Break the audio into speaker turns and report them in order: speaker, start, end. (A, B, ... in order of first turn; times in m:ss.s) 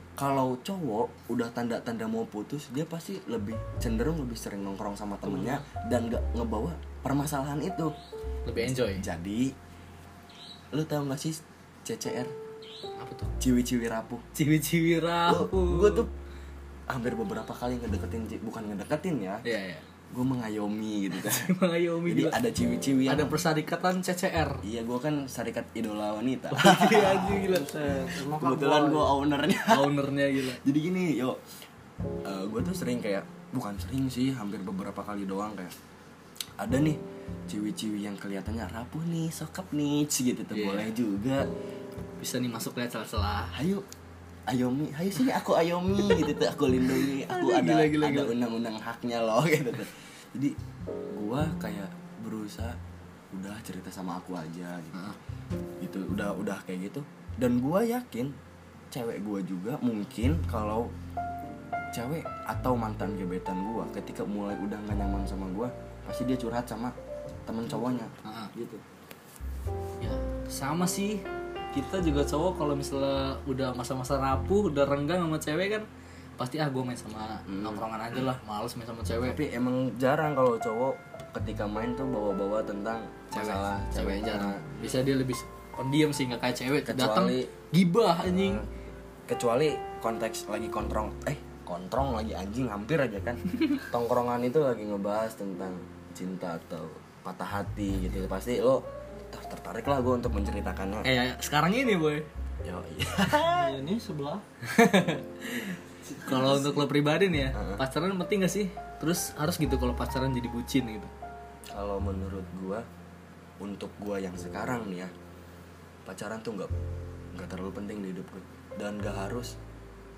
0:00.2-0:07.9 A
0:08.5-0:09.1 B
0:08.6-0:09.5 A
0:10.7-0:12.3 A
0:13.0-0:13.3 B
0:13.4-0:14.2 A
0:14.4-0:16.1 B
0:15.3-0:16.1 A
0:16.9-0:19.4 A
0:19.4-0:19.8 B
0:20.1-0:21.5 A
0:21.2-0:22.4 B
0:22.1-0:23.4 A
0:23.1-0:24.6 B
0:24.6-0:27.4 A
0:26.5-0:27.7 B
0:27.0-0:29.2 C
0:28.3-0:31.4 A
0:29.7-0:30.6 B
0:32.2-0:35.7 A
0:36.6-0:41.5 A
0:40.5-0:40.9 B
0:42.2-0:43.6 B
0:43.5-0:43.8 A
0:44.5-0:50.6 A
0:47.0-0:48.3 B
0:51.2-0:52.8 A
0:53.3-0:55.1 A
0:55.8-0:58.3 A
0:58.9-1:00.9 A
1:01.9-1:07.0 A
1:07.5-1:08.8 A
1:08.2-1:08.5 B
1:10.0-1:15.9 B
1:16.4-1:19.4 B
1:17.5-1:17.8 A
1:19.2-1:24.6 A
1:23.3-1:28.6 B
1:26.8-1:27.5 A
1:28.2-1:41.1 A
1:41.0-1:42.3 B
1:42.6-1:43.8 A
1:43.5-1:44.4 C
1:44.6-1:51.1 B
1:46.3-1:46.8 A
1:47.5-1:47.8 A
1:51.7-1:52.9 A
1:53.6-1:55.1 A
1:56.1-1:56.7 A
1:57.3-1:59.6 A